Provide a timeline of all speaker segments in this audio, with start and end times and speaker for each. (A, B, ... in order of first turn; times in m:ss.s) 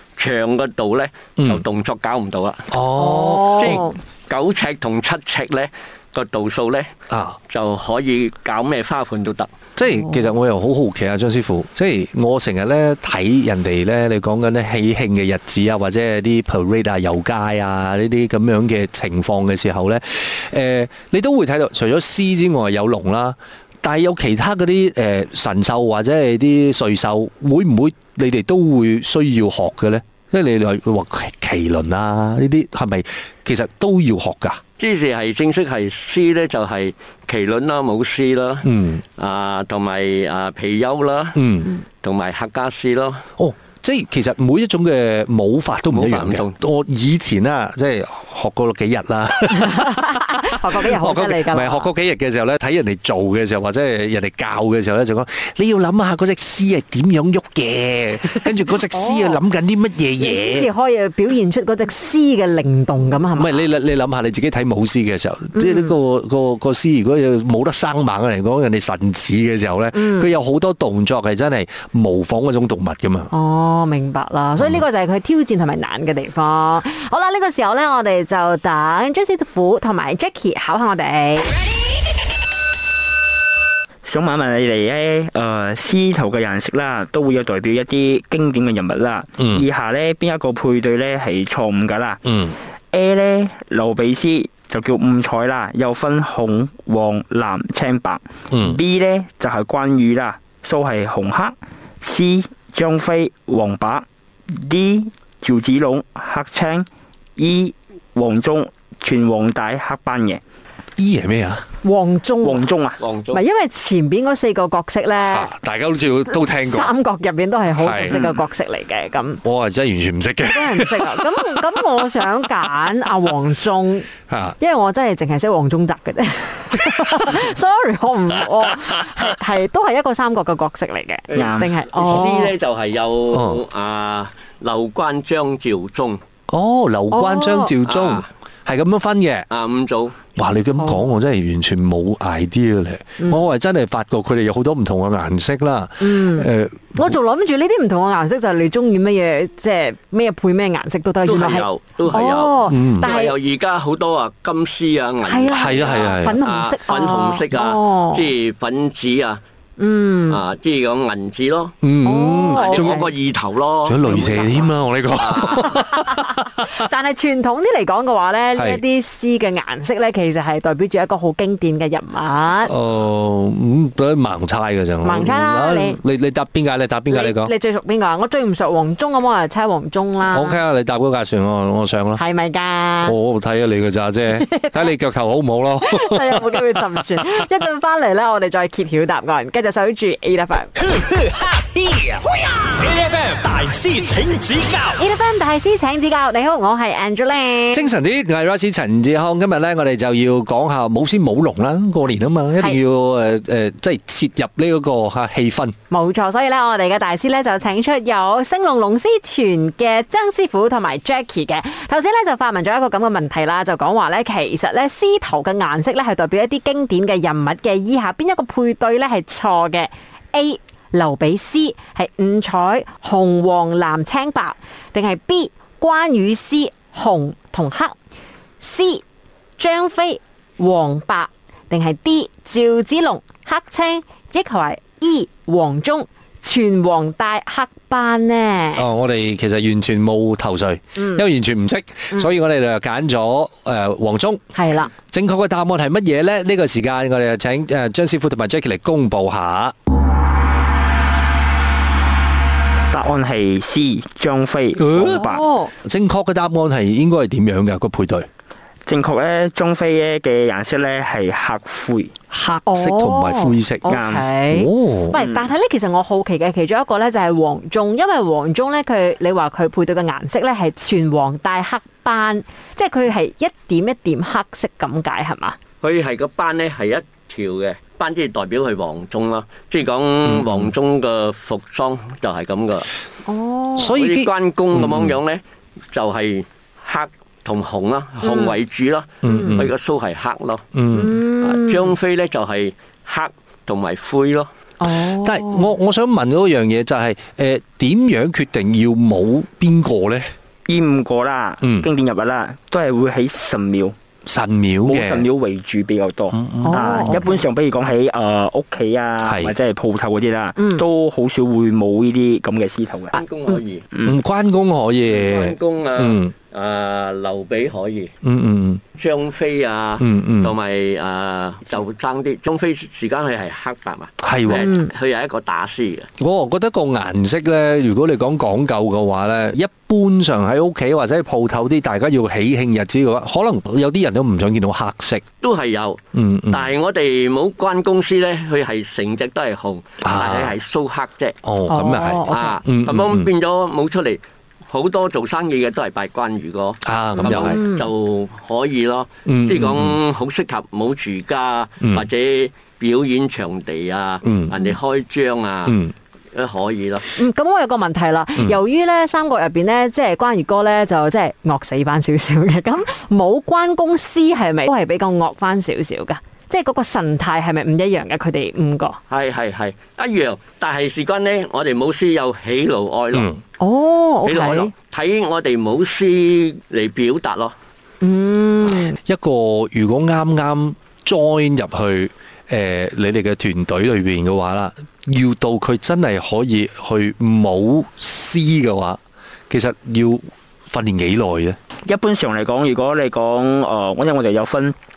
0:00.2-0:02.7 A
0:01.4-0:01.6 B
0:02.7-0:03.8 B
0:02.9-0:04.0 C
0:03.6-0:06.9 A
0:07.1-0:07.4 B
0:07.5-0:09.5 A
0:09.8-0:34.6 B
0:09.8-0:10.2 C
0:34.8-0:41.4 A
0:38.6-0:39.0 B
0:41.3-0:41.7 B
0:42.0-0:43.2 A
0:43.4-1:00.7 B
0:45.9-0:46.5 A
0:49.5-0:51.9 C
0:58.9-0:59.4 C
1:00.2-1:03.7 C
1:03.4-1:13.3 B
1:05.5-1:05.9 C
1:09.9-1:10.3 C
1:13.3-1:21.6 C
1:14.6-1:14.8 B
1:24.1-1:32.2 D
1:29.4-1:29.6 B
1:32.2-1:32.6 B
1:32.9-1:50.4 D
1:38.5-1:38.8 B
1:51.0-1:51.6 B
1:51.8-1:52.7 C
1:52.4-1:53.0 D
1:53.0-1:53.4 A
1:53.3-1:55.5 C
1:55.2-1:56.9 B
1:56.3-1:59.4 C
1:57.8-1:58.2 B
1:58.1-1:58.4 D
1:59.4-2:01.6 B
2:00.4-2:04.1 C
2:04.3-2:04.6 B
2:04.6-2:12.5 C
2:11.3-2:16.2 A
2:11.3-2:11.7 D
2:13.3-2:13.6 B
2:16.5-2:19.5 B
2:17.1-2:17.7 C
2:17.8-2:18.3 A
2:19.5-2:20.2 A
2:20.4-2:27.2 B
2:20.8-2:21.0 C
2:26.0-2:33.4 C
2:31.2-2:39.4 A
2:32.7-2:33.1 B
2:35.2-2:38.3 C
2:35.5-2:36.4 B
2:39.8-2:40.4 C
2:40.3-2:41.8 A
2:41.8-2:43.1 B
2:42.0-2:43.1 C
2:42.5-2:45.9 A
2:43.8-2:46.8 B
2:45.8-2:52.7 C
2:48.6-2:48.8 B
2:52.6-2:57.5 B
2:55.0-2:56.0 C
2:57.1-3:00.6 C
3:00.3-3:02.2 B
3:02.2-3:03.2 C
3:03.0-3:07.4 B
3:04.3-3:04.9 C
3:05.8-3:10.7 C
3:10.8-3:15.0 E
3:15.0-3:17.9 C
3:17.7-3:25.8 B
3:25.9-3:48.0 C
3:48.6-3:49.0 C
3:49.6-3:58.9 C
3:58.7-4:04.4 B
4:01.0-4:01.2 C
4:04.5-4:04.9 C
4:05.1-4:09.7 B
4:12.9-4:15.4 D
4:14.8-4:15.2 B
4:15.0-4:15.7 C
4:15.8-4:18.3 B
4:18.9-4:22.1 D
4:22.3-4:24.0 B
4:22.6-4:35.6 C
4:23.9-4:24.3 D
4:24.5-4:25.2 B
4:25.1-4:25.5 D
4:35.8-4:42.9 A
4:40.2-4:40.7 B
4:43.2-4:44.0 C
4:43.8-4:45.2 B
4:43.9-4:50.6 A
4:48.2-4:48.6 C
4:49.2-4:49.7 B
4:49.2-4:49.6 C
4:50.7-4:51.2 B
4:50.9-4:51.9 C
4:51.4-4:54.5 A
4:54.8-4:55.7 C
4:54.9-5:00.3 B
5:00.7-5:03.9 D
5:01.6-5:01.9 B
5:04.2-5:05.2 B
5:04.8-5:13.2 D
5:06.3-5:07.2 B
5:06.6-5:07.4 C
5:09.2-5:09.6 B
5:10.6-5:10.8 C
5:13.1-5:13.9 A
5:13.9-5:14.2 D
5:14.0-5:16.3 B
5:15.1-5:18.1 A
5:18.2-5:18.8 B
5:18.9-5:26.1 A
5:20.0-5:20.6 B
5:24.2-5:24.8 B
5:24.5-5:24.9 C
5:26.2-5:35.2 B
5:35.4-5:36.0 A
5:36.1-5:36.7 B
5:36.5-5:41.4 A
5:40.0-5:40.5 B
5:41.4-5:43.3 B
5:41.7-5:42.6 C
5:42.3-5:55.8 A
5:46.8-5:47.6 B
5:47.2-5:47.9 C
5:49.2-5:50.0 B
5:54.2-5:54.6 B
5:55.6-5:55.9 B
5:56.3-5:57.1 A
5:57.1-6:09.0 C
6:09.1-6:13.3 A
6:13.1-6:13.4 B
6:13.6-6:14.7 C
6:14.2-6:17.5 A
6:18.0-6:19.0 C
6:18.7-6:29.0 B
6:29.5-6:31.6 B
6:31.9-6:34.8 D